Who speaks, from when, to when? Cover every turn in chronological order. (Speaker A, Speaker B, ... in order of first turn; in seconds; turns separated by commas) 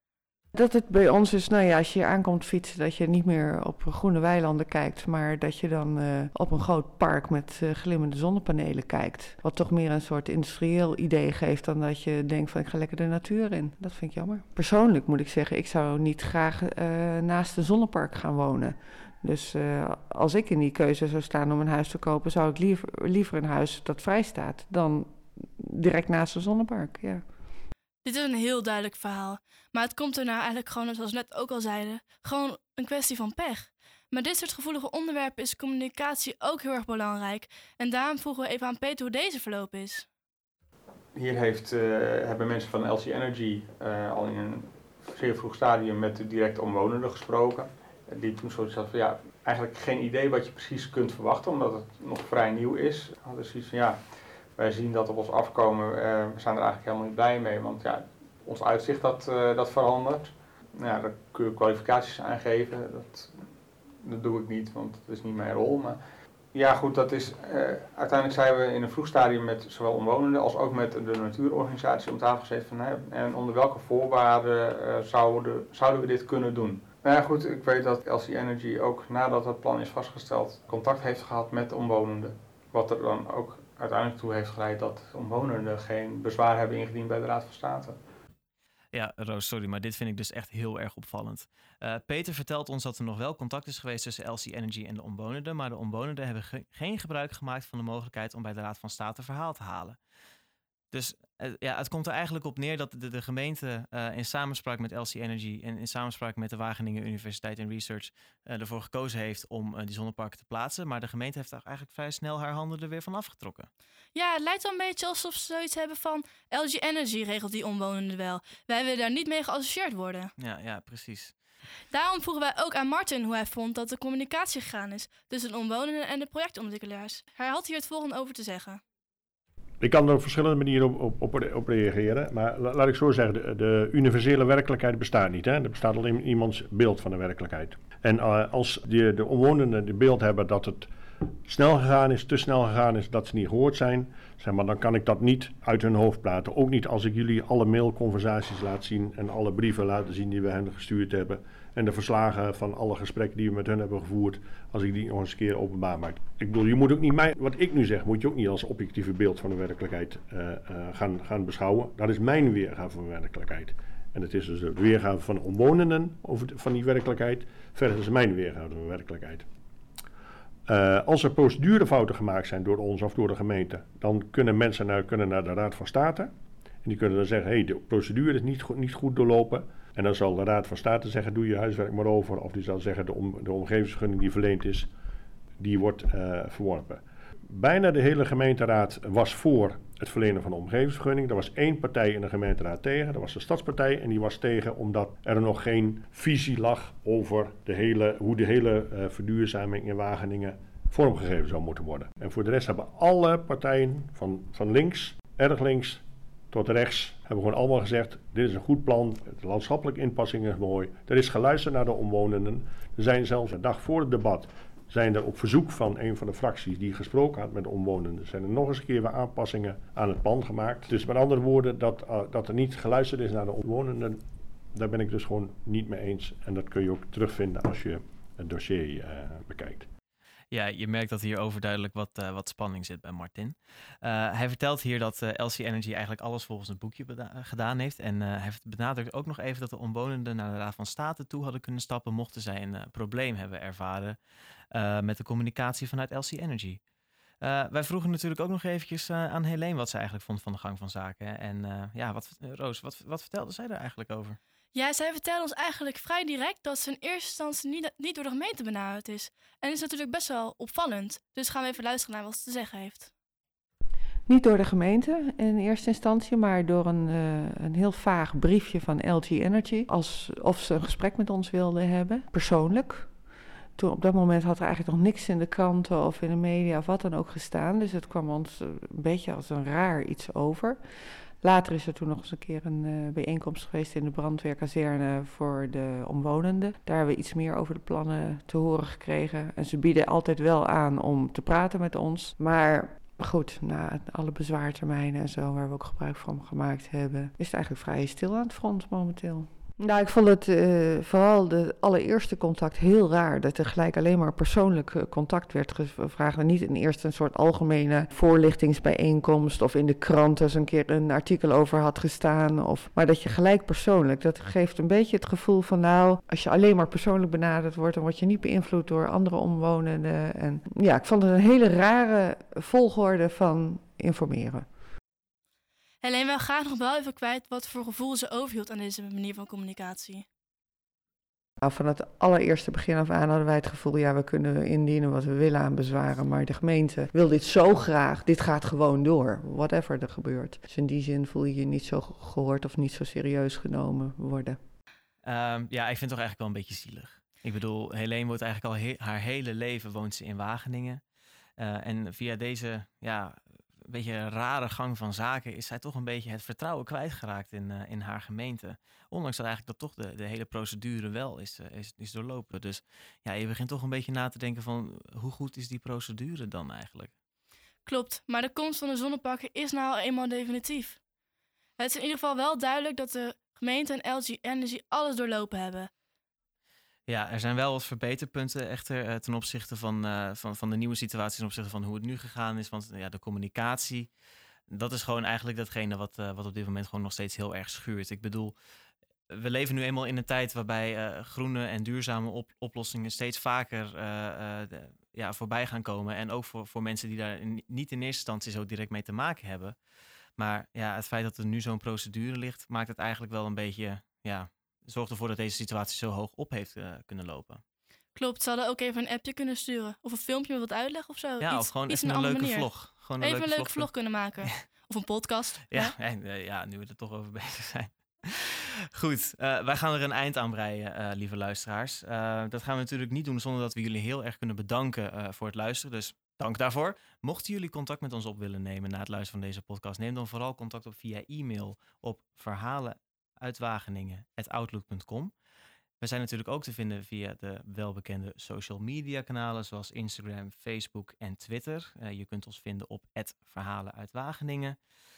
Speaker A: 0.5-27.2, Speaker B: 28.0-40.0, Speaker C: 41.1-54.0, Speaker C: 54.6-63.3, Speaker C: 64.0-66.0, Speaker C: 66.5-88.0, Speaker D: 88.9-100.0, Speaker D: 100.9-113.7, Speaker B: 114.1-120.3, Speaker D: 120.4-121.3, Speaker B: 121.9-128.8, Speaker E: 129.8-140.9, Speaker E: 141.4-169.5, Speaker E: 170.7-176.3, Speaker E: 176.8-184.9, Speaker E: 185.6-224.2, Speaker E: 224.7-229.9, Speaker D: 230.5-244.2, Speaker D: 244.7-246.8, Speaker D: 247.4-254.4, Speaker B: 254.7-263.1, Speaker A: 264.3-273.1, Speaker A: 273.8-280.8, Speaker A: 281.4-324.6, Speaker B: 326.0-330.2, Speaker A: 331.6-344.6, Speaker D: 345.2-351.0, Speaker D: 351.6-367.1, Speaker B: 367.8-371.0, Speaker B: 371.8-375.9, Speaker D: 377.1-384.1, Speaker D: 384.7-388.5, Speaker D: 389.3-399.8, Speaker D: 400.4-407.6, Speaker B: 408.1-415.9, Speaker D: 411.4-414.5, Speaker D: 415.7-435.3, Speaker D: 436.0-444.8